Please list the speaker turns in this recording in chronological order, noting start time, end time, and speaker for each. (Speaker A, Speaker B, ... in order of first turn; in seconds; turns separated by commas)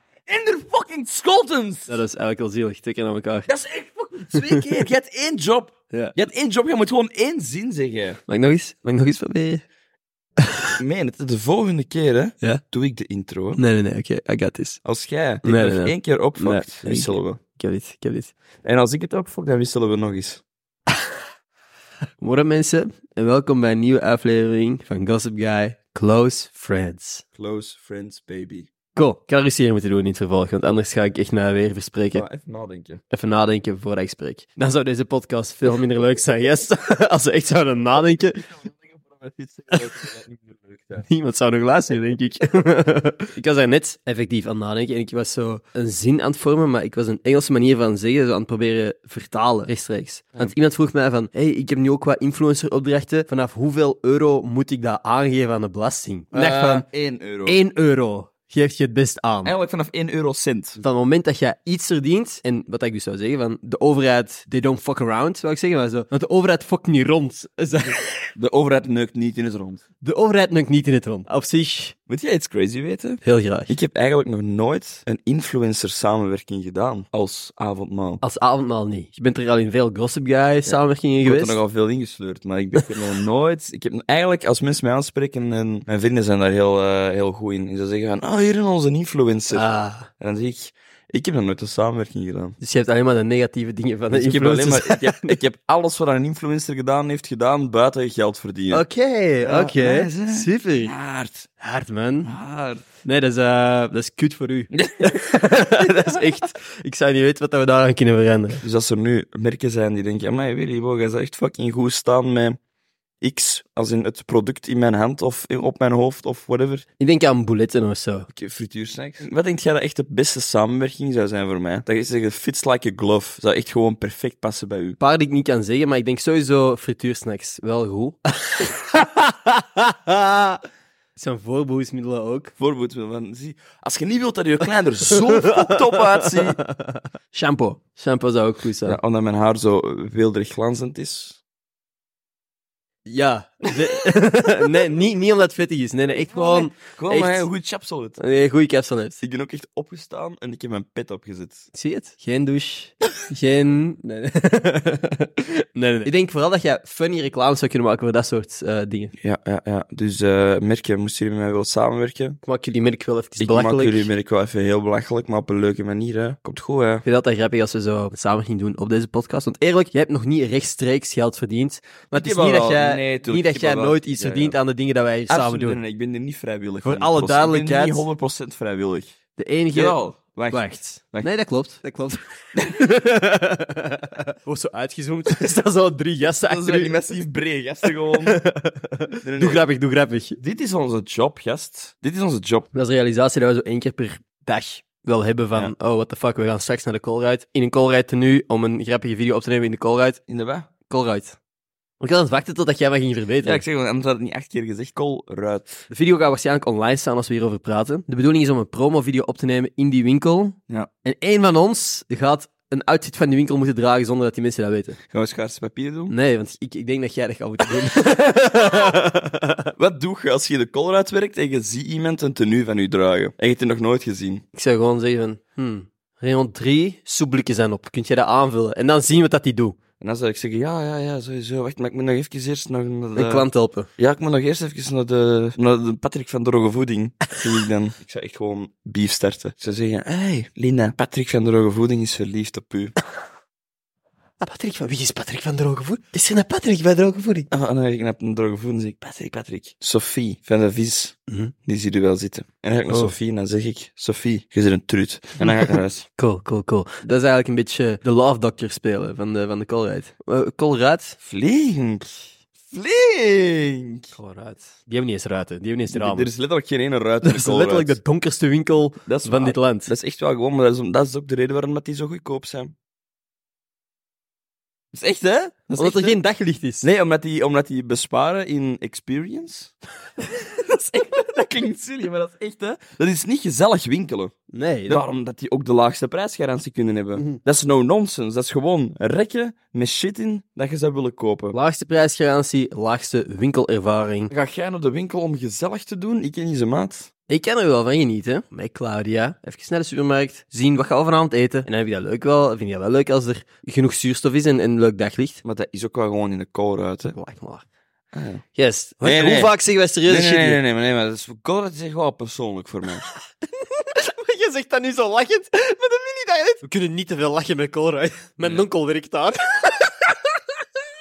Speaker A: 0.3-1.9, Speaker B: 1.9-3.5, Speaker A: 3.5-8.2, Speaker B: 8.3-9.6, Speaker A: 10.8-13.6, Speaker B: 13.6-14.8, Speaker A: 14.8-17.4, Speaker B: 15.4-18.3, Speaker A: 18.6-20.4, Speaker B: 22.2-27.2, Speaker A: 27.4-28.7, Speaker B: 28.9-32.2, Speaker A: 32.1-33.0, Speaker B: 33.1-38.5, Speaker A: 38.4-41.0, Speaker B: 41.1-56.8, Speaker A: 56.3-57.6, Speaker B: 57.5-59.5, Speaker A: 59.4-60.8, Speaker B: 60.8-68.3, Speaker A: 68.3-69.8, Speaker B: 70.0-71.9, Speaker A: 72.1-78.2, Speaker B: 73.2-73.7, Speaker B: 78.2-81.6, Speaker A: 80.7-89.7, Speaker B: 89.5-90.1, Speaker A: 90.2-92.6, Speaker B: 92.6-95.4, Speaker A: 94.1-98.8, Speaker B: 98.7-100.9, Speaker A: 99.4-101.5, Speaker B: 101.6-102.3, Speaker A: 102.2-102.8, Speaker B: 103.0-108.6, Speaker A: 104.7-106.2, Speaker A: 108.6-112.6, Speaker A: 113.2-116.8, Speaker B: 117.0-118.3, Speaker A: 118.3-125.0, Speaker B: 125.0-130.6, Speaker B: 131.2-132.5, Speaker A: 132.6-136.6, Speaker B: 135.7-139.0, Speaker A: 138.8-141.4, Speaker B: 143.1-147.5, Speaker A: 146.3-148.2, Speaker B: 148.2-149.2, Speaker A: 149.2-151.7, Speaker B: 151.7-159.1, Speaker A: 159.2-162.4, Speaker B: 162.4-164.1, Speaker A: 163.4-167.0, Speaker B: 167.0-175.8, Speaker A: 172.1-174.6, Speaker A: 175.3-179.1, Speaker B: 176.8-178.1, Speaker B: 179.3-180.0, Speaker A: 179.7-181.3, Speaker B: 180.5-187.0, Speaker A: 186.4-188.4, Speaker B: 188.2-190.4, Speaker A: 189.2-189.6, Speaker A: 190.4-192.7, Speaker B: 192.7-200.2, Speaker A: 200.3-200.7, Speaker B: 200.9-201.4, Speaker B: 202.0-203.6, Speaker A: 203.4-205.8, Speaker B: 205.9-215.0, Speaker A: 215.1-216.1, Speaker B: 216.1-219.7, Speaker A: 219.8-224.4, Speaker B: 224.5-229.8, Speaker A: 230.0-233.5, Speaker B: 233.1-233.9, Speaker A: 234.0-242.9, Speaker B: 244.4-247.5, Speaker A: 247.5-251.2, Speaker A: 251.7-256.0, Speaker B: 255.4-261.2, Speaker A: 261.2-262.1, Speaker A: 262.7-264.1, Speaker B: 264.1-266.3, Speaker A: 265.9-268.0, Speaker B: 267.2-269.9, Speaker A: 269.1-272.7, Speaker A: 274.9-276.2, Speaker B: 275.8-276.9, Speaker A: 276.8-284.3, Speaker B: 284.5-285.0, Speaker A: 284.9-291.6, Speaker B: 291.5-294.3, Speaker A: 294.3-297.1, Speaker B: 297.3-305.4, Speaker A: 305.4-307.1, Speaker B: 307.1-307.6, Speaker A: 308.1-308.4, Speaker B: 308.5-310.6, Speaker A: 309.0-309.5, Speaker A: 310.1-313.0, Speaker B: 313.1-320.4